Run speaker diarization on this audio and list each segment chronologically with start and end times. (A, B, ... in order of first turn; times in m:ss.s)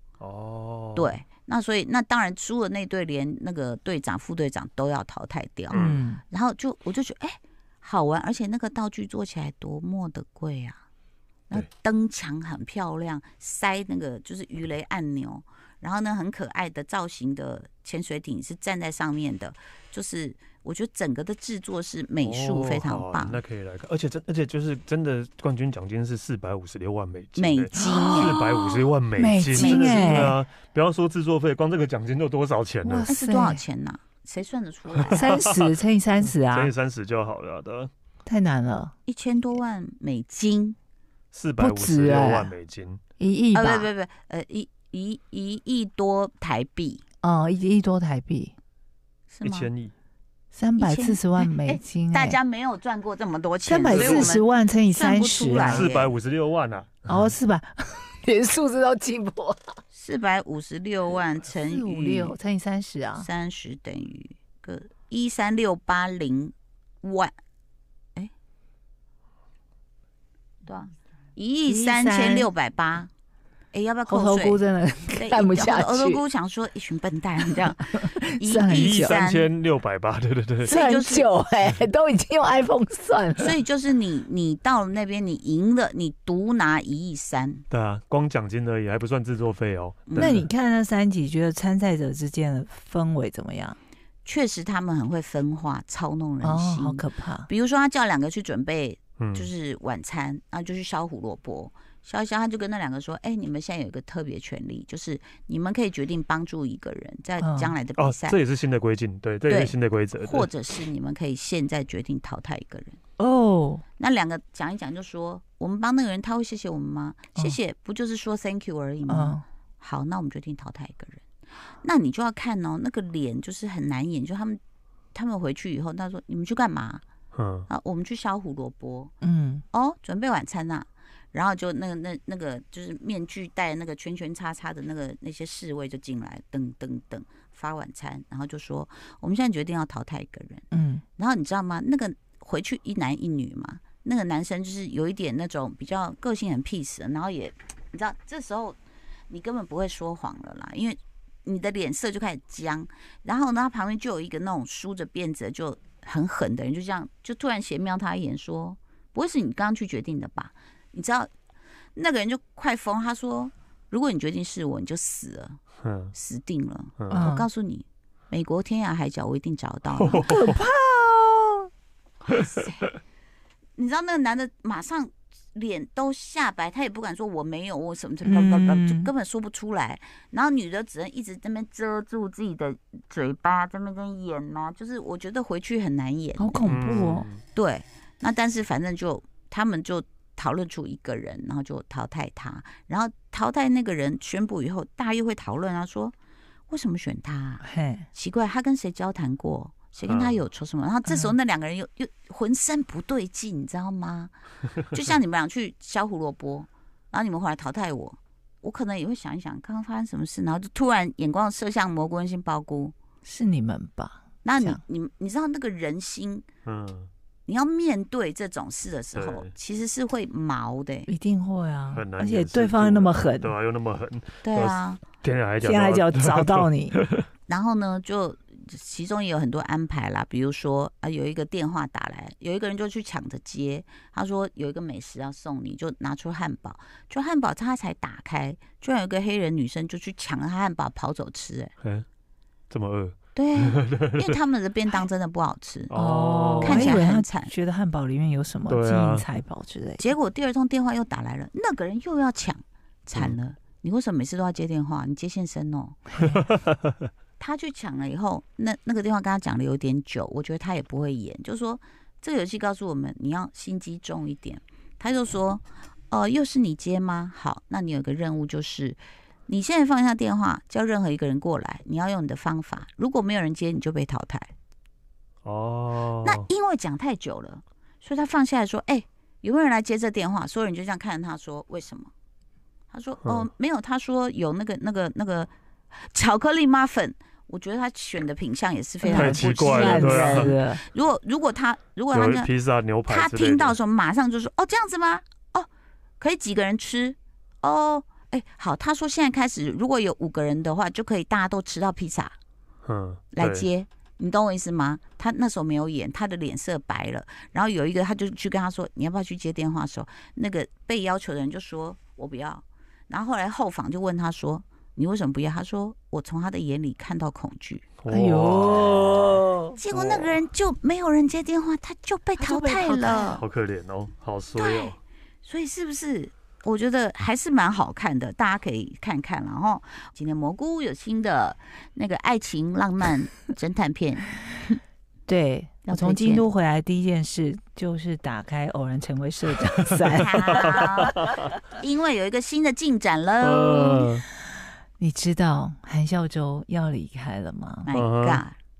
0:00.2-0:01.2 A
0:01.0-0:10.8 B
0:05.7-0:06.0 A
0:05.7-0:06.2 C
0:11.5-0:23.4 B
0:22.2-0:33.1 A
0:27.4-0:28.9 B
0:27.8-0:28.4 C
0:29.2-0:30.4 C
0:29.5-0:30.4 B
0:32.8-0:33.6 C
0:33.1-0:35.4 B
0:35.0-0:35.7 A
0:35.1-0:36.7 C
0:36.3-0:37.9 A
0:38.2-0:38.9 C
0:39.0-0:40.8 B
0:41.3-0:43.0 A
0:41.6-0:42.5 C
0:43.2-0:43.9 C
0:43.5-0:47.0 B
0:47.2-0:48.5 C
0:49.3-0:49.7 B
0:49.4-0:49.9 A
0:50.5-0:52.4 C
0:50.8-0:56.1 B
0:53.6-0:55.9 C
0:53.9-0:54.3 A
0:55.6-0:57.3 A
0:57.1-0:59.8 C
0:59.9-1:02.4 B
1:01.5-1:03.3 C
1:03.2-1:07.3 B
1:10.6-1:13.1 B
1:11.6-1:12.5 C
1:13.7-1:14.6 B
1:14.1-1:16.2 C
1:15.2-1:19.5 B
1:17.9-1:19.2 C
1:18.7-1:20.7 A
1:20.6-1:21.3 B
1:20.6-1:23.6 C
1:23.4-1:27.6 B
1:27.7-1:30.4 A
1:30.1-1:30.4 B
1:30.2-1:33.8 C
1:34.2-1:48.4 B
1:36.4-1:37.5 C
1:39.2-1:39.5 A
1:47.4-1:47.7 C
1:48.0-1:50.5 A
1:49.5-1:53.0 B
1:53.2-1:53.8 C
1:54.0-2:01.2 B
1:59.1-1:59.4 C
2:01.8-2:04.6 B
2:05.1-2:07.0 B
2:07.3-2:07.7 A
2:07.7-2:09.1 B
2:09.2-2:09.6 C
2:09.7-2:20.6 B
2:20.7-2:21.0 C
2:21.2-2:28.8 B
2:29.3-2:41.3 B
2:41.9-2:45.6 B
2:45.8-2:46.1 A
2:46.1-2:50.4 B
2:47.0-2:47.3 A
2:47.1-2:47.5 C
2:49.9-2:50.6 A
2:50.3-2:51.7 C
2:52.3-2:52.8 B
2:53.8-3:06.8 B
2:58.2-2:59.1 C
3:06.4-3:07.3 C
3:06.7-3:07.4 A
3:07.5-3:16.1 B
3:16.7-3:24.3 B
3:17.6-3:18.1 C
3:20.0-3:20.4 A
3:21.0-3:21.3 C
3:24.9-3:32.9 B
3:33.2-3:34.8 C
3:34.4-3:36.4 B
3:36.6-3:37.1 A
3:37.5-3:41.1 B
3:39.1-3:39.5 A
3:41.1-3:43.5 C
3:41.9-3:47.2 A
3:44.4-3:45.0 B
3:45.6-3:47.0 C
3:47.5-4:01.7 B
4:02.7-4:04.3 A
4:03.3-4:05.9 B
4:05.9-4:07.0 A
4:05.9-4:10.1 C
4:06.6-4:07.5 B
4:08.7-4:09.2 A
4:10.0-4:16.0 B
4:16.3-4:16.7 A
4:17.4-4:34.5 B
4:35.4-4:36.4 A
4:36.2-4:42.1 B
4:42.9-4:52.5 B
4:49.0-4:50.8 C
4:49.1-4:50.6 A
4:52.1-4:53.8 A
4:53.1-4:55.7 B
4:56.2-5:02.4 B
5:02.8-5:03.7 A
5:03.3-5:17.8 B
5:18.0-5:20.4 A
5:18.1-5:19.8 C
5:19.8-5:23.4 B
5:22.4-5:23.4 C
5:23.3-5:25.0 A
5:24.5-5:34.4 B
5:35.3-5:41.0 C
5:35.8-5:36.4 B
5:40.1-5:41.2 B
5:40.5-5:41.2 A
5:41.8-5:44.0 B
5:43.4-5:44.2 A
5:45.0-5:47.9 C
5:47.8-5:48.5 B
5:47.9-5:48.4 A